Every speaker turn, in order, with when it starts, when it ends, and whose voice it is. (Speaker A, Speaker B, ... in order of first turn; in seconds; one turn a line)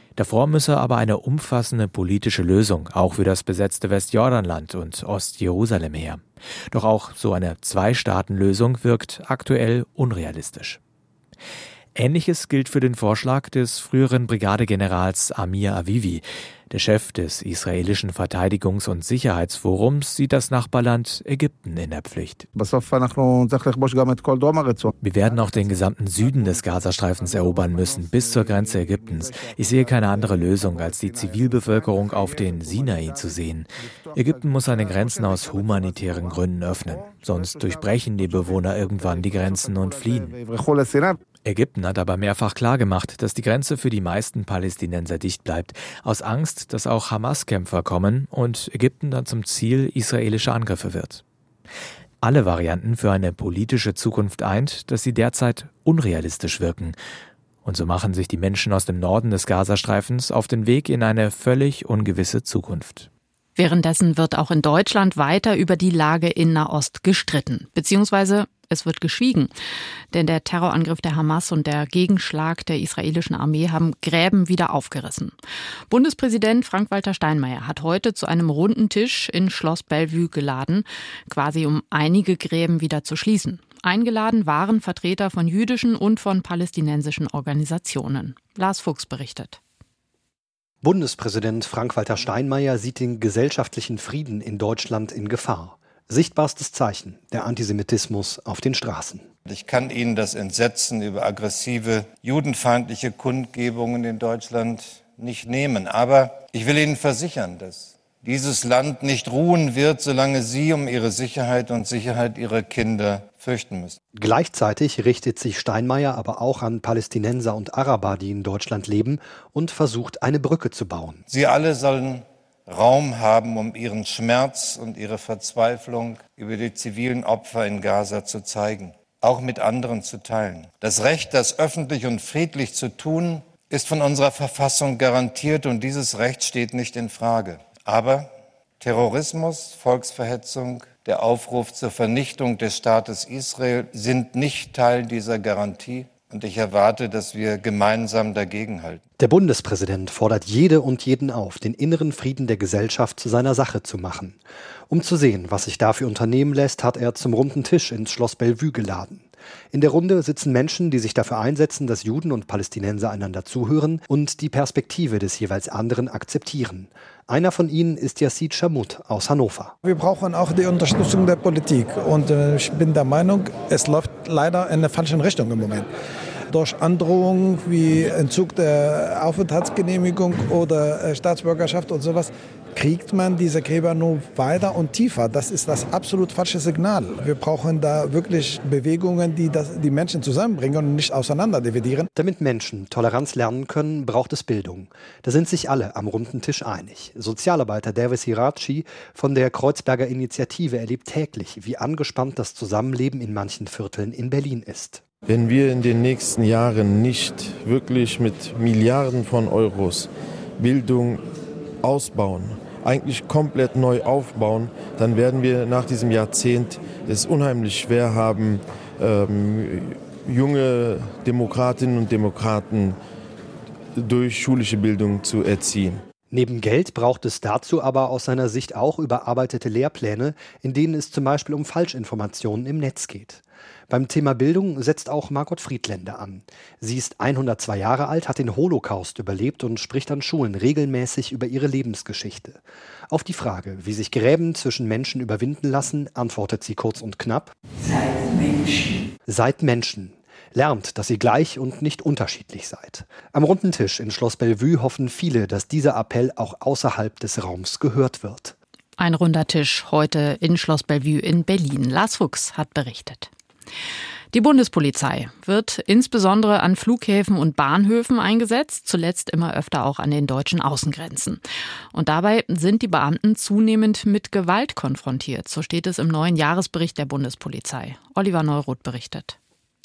Speaker A: 0.1-10.8
Speaker A: 11.9-22.5
Speaker A: 25.0-40.4
Speaker A: 41.4-51.2
Speaker A: 52.2-57.0
Speaker A: 57.6-63.1
Speaker B: 63.5-69.5
Speaker B: 70.1-75.3
Speaker B: 75.9-89.6
Speaker C: 90.8-99.3
Speaker D: 99.5-114.0
Speaker C: 114.1-121.2
Speaker D: 121.3-149.0
Speaker C: 149.2-169.7
Speaker E: 169.8-175.9
Speaker E: 176.5-192.1
Speaker C: 192.1-205.0
Speaker F: 205.2-211.3
Speaker F: 211.8-223.0
Speaker F: 223.9-226.0
Speaker C: 226.3-247.5
Speaker C: 249.2-258.5
Speaker B: 259.0-263.3
Speaker B: 264.3-271.4
Speaker B: 271.9-279.4